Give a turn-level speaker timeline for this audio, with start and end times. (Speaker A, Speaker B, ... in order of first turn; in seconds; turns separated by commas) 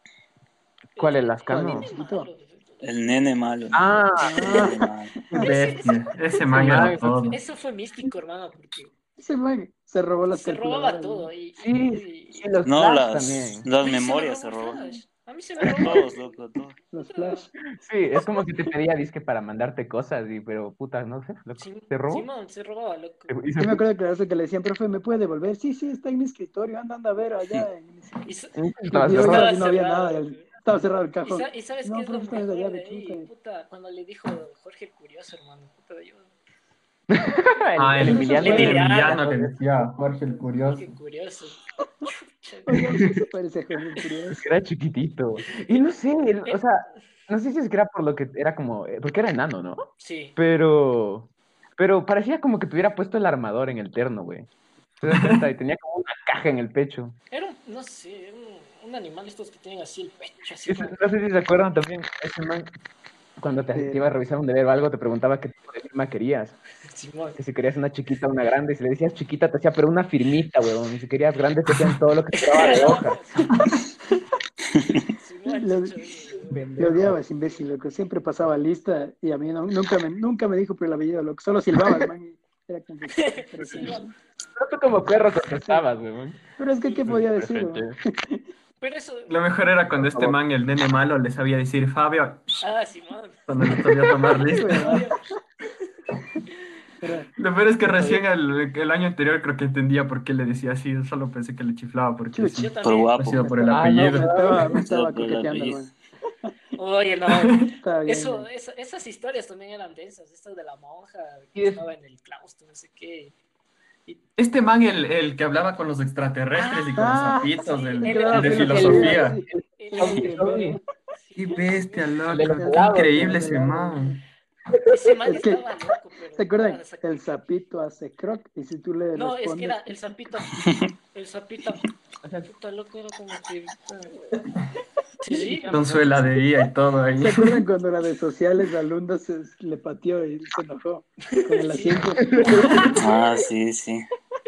Speaker A: 0.9-2.8, Speaker B: 1.0-1.9, Speaker C: 1.5-2.3, Speaker D: 2.8-3.8, Speaker B: 3.7-4.7, Speaker C: 4.2-4.8, Speaker D: 4.4-5.3, Speaker E: 5.3-7.4, Speaker A: 5.4-8.9, Speaker B: 6.5-7.3, Speaker C: 9.2-11.3, Speaker A: 10.3-12.6, Speaker B: 11.6-13.7, Speaker D: 12.6-14.9, Speaker A: 13.8-16.3, Speaker B: 15.6-16.0, Speaker D: 15.6-16.8, Speaker C: 16.9-17.5, Speaker A: 17.0-17.5, Speaker B: 17.7-22.3, Speaker A: 21.6-23.3, Speaker B: 23.3-23.8, Speaker C: 23.6-28.3, Speaker A: 28.2-28.5, Speaker B: 28.6-29.4, Speaker C: 28.9-33.3, Speaker A: 29.1-30.5, Speaker A: 31.2-36.3, Speaker B: 37.1-39.5, Speaker E: 37.8-40.9, Speaker C: 38.0-38.8, Speaker A: 38.0-39.2, Speaker A: 40.3-42.8, Speaker C: 42.7-44.4, Speaker B: 44.3-49.8, Speaker A: 45.5-45.8, Speaker A: 50.0-50.4, Speaker B: 50.4-54.5, Speaker B: 55.0-57.1, Speaker E: 55.1-55.4, Speaker A: 57.3-61.0, Speaker B: 60.7-62.7, Speaker B: 63.4-66.6, Speaker C: 63.7-64.1, Speaker A: 66.9-67.4, Speaker B: 67.3-73.2, Speaker A: 72.3-73.7, Speaker D: 74.7-75.0, Speaker A: 75.1-76.6, Speaker C: 75.5-75.9, Speaker B: 76.5-77.2, Speaker C: 76.8-84.1, Speaker A: 83.2-84.1, Speaker B: 84.5-86.4, Speaker C: 86.6-88.4, Speaker A: 86.8-87.1, Speaker B: 87.0-88.0, Speaker A: 88.8-89.4, Speaker E: 89.3-92.6, Speaker B: 89.9-90.4, Speaker A: 92.6-93.4, Speaker E: 93.5-94.9, Speaker A: 94.2-95.9, Speaker C: 94.5-95.1, Speaker C: 97.0-97.3, Speaker E: 97.4-104.4, Speaker C: 97.8-98.2, Speaker C: 102.3-102.7, Speaker A: 102.5-103.2, Speaker D: 102.8-103.5, Speaker C: 103.3-105.9, Speaker B: 103.7-104.7, Speaker D: 104.6-105.9, Speaker A: 106.8-113.3, Speaker E: 107.3-107.7, Speaker C: 107.8-108.5, Speaker B: 111.5-111.8, Speaker E: 114.4-119.4, Speaker A: 116.5-119.1, Speaker C: 116.9-120.8, Speaker B: 118.4-120.8, Speaker A: 119.8-122.4, Speaker E: 121.3-124.2, Speaker B: 122.3-123.7, Speaker C: 122.4-124.1, Speaker B: 124.7-125.4, Speaker A: 124.8-127.4, Speaker C: 125.3-125.7, Speaker C: 126.4-130.0, Speaker A: 129.1-131.8, Speaker D: 130.6-130.9, Speaker B: 132.2-132.5, Speaker A: 132.4-134.2, Speaker A: 135.2-135.7, Speaker B: 135.3-136.2, Speaker E: 135.7-137.6, Speaker C: 137.2-142.9, Speaker A: 141.5-143.0, Speaker B: 142.2-143.0, Speaker D: 142.9-144.1